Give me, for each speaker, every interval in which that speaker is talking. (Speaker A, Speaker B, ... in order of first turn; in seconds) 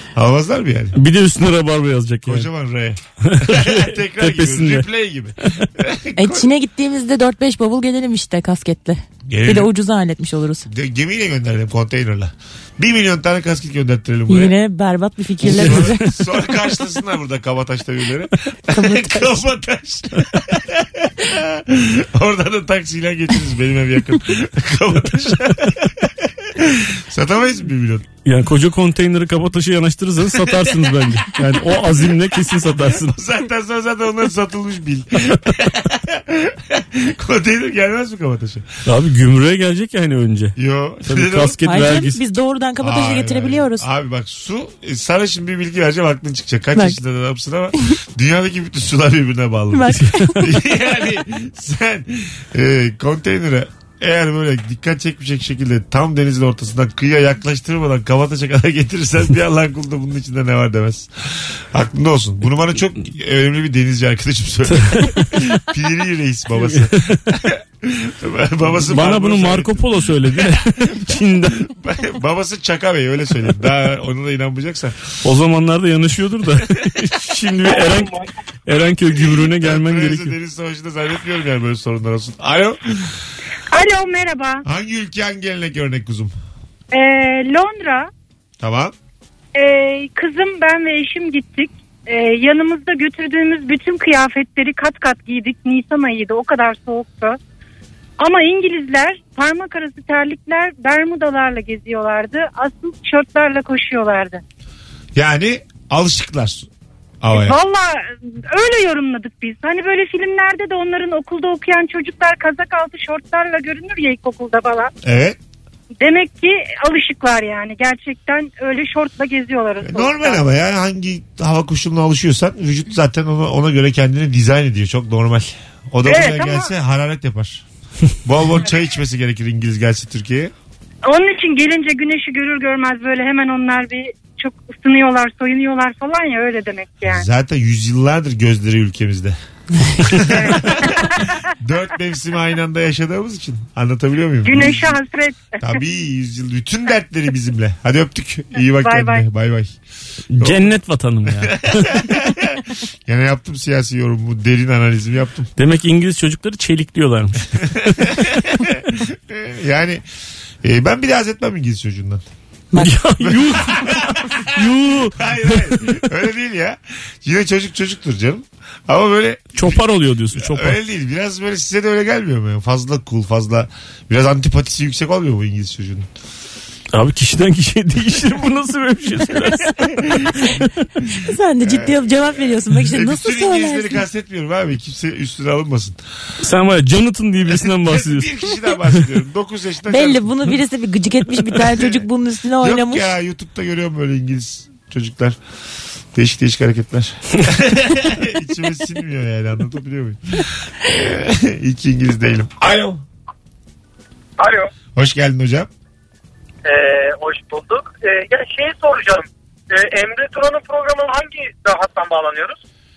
Speaker A: 0.1-1.0, 2.2-6.5, 9.3-9.7, 10.7-14.6, 15.4-28.1, 30.4-31.1, 33.1-38.7, 40.6-41.6, 42.8-75.0, 79.1-83.1, 84.7-86.3, 88.6-88.9, 105.2-106.7, 107.2-107.6, 115.0-115.4, 119.8-127.7, 128.2-130.5, 137.0-139.3, 140.0-145.0, 145.6-149.7, 150.4-150.7, 151.3-155.5, 157.6-160.0, 160.6-162.2, 163.2-176.1, 179.8-180.6, 181.6-186.0, 187.5-190.5, 191.8-192.0, 192.6-195.4, 196.1-203.0, 204.9-205.7
Speaker B: 0.9-2.5, 3.2-4.9, 15.5-15.9, 28.2-33.2, 38.9-42.2, 49.9-50.4, 64.7-65.5, 66.6-67.2, 68.8-71.7, 75.2-80.3, 150.3-152.1, 155.6-158.0, 162.8-165.9, 169.6-170.8, 176.9-180.7, 186.4-188.8
Speaker C: 6.2-10.7, 14.3-16.1, 18.7-19.4, 41.6-43.9, 49.7-50.5, 181.2-184.0, 189.9-193.1
Speaker D: 83.7-84.6, 86.9-88.1, 89.5-97.4, 98.2-104.4, 107.3-114.9, 116.0-120.4, 126.0-126.7, 131.1-137.2, 140.3-141.3, 144.4-145.7, 148.7-149.2
Speaker E: 207.3-207.6, 208.3-209.1, 210.0-211.1, 211.7-212.4